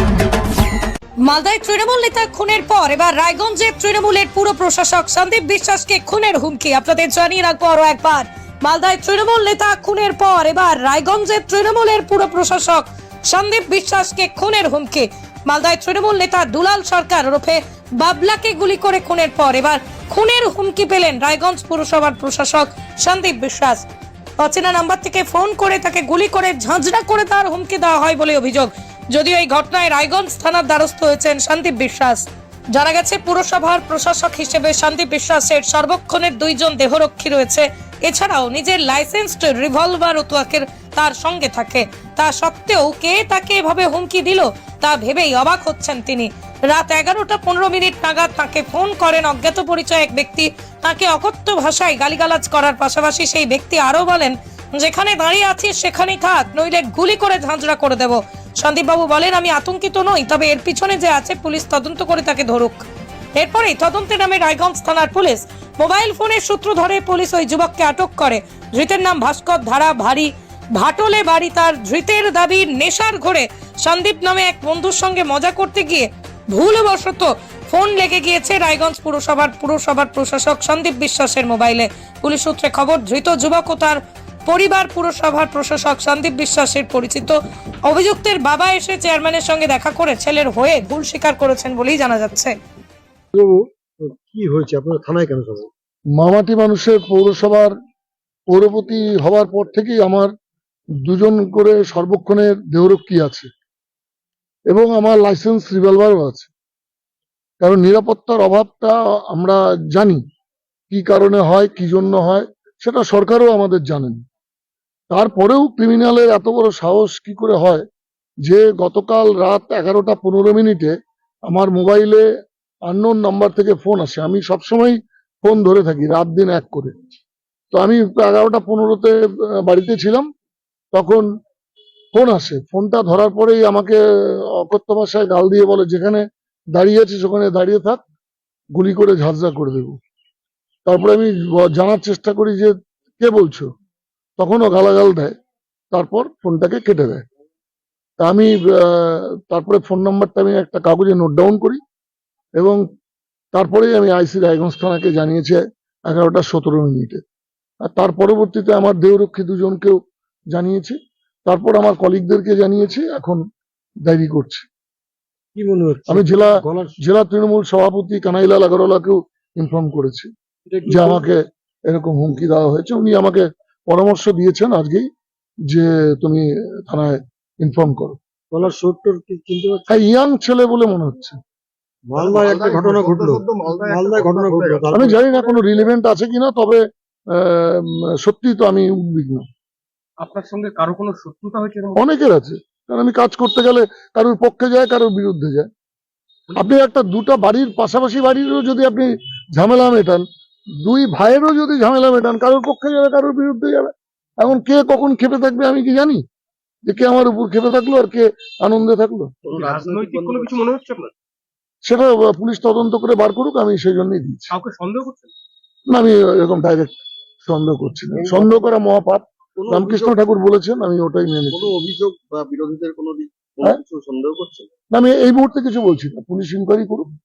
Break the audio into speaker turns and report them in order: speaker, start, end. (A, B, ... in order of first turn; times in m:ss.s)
0:01.2-0:23.8 A
0:24.4-1:02.8 A
1:03.4-1:32.5 A
1:33.3-1:35.7 B
1:36.2-1:37.7 C
1:38.5-1:40.3 C
1:41.0-1:43.5 C
1:44.7-1:46.5 C
1:47.6-1:50.2 C
1:50.9-1:54.2 C
1:55.1-1:57.8 C
1:58.4-2:00.9 C
2:01.5-2:02.2 C
2:02.8-2:07.0 C
2:07.7-2:10.2 C
2:10.9-2:11.2 C
2:12.1-2:14.0 C
2:14.5-2:18.0 C
2:18.7-2:20.0 C
2:20.8-2:23.7 C
2:24.4-2:25.3 C
2:25.9-2:27.2 C
2:28.2-2:31.8 C
2:33.5-2:37.2 C
2:37.8-2:40.0 C
2:40.5-2:43.4 C
2:44.0-2:44.7 C
2:45.5-2:46.9 B
2:46.1-2:50.3 C
2:50.7-2:51.2 B
2:50.9-2:51.4 C
2:51.9-2:55.0 C
2:55.7-2:58.2 C
2:58.5-2:59.9 B
2:59.9-3:01.4 C
3:02.1-3:05.2 B
3:02.2-3:04.9 D
3:04.9-3:06.8 C
3:07.3-3:09.4 C
3:10.2-3:12.1 E
3:12.0-3:15.7 C
3:16.6-3:20.2 C
3:20.8-3:26.2 C
3:26.8-3:29.3 C
3:29.4-3:30.6 D
3:29.5-3:31.1 E
3:31.8-3:34.5 C
3:34.5-3:35.3 E
3:35.9-3:41.7 C
3:38.2-3:38.7 D
3:39.6-3:40.1 D
3:41.5-3:44.7 D
3:44.9-3:47.1 C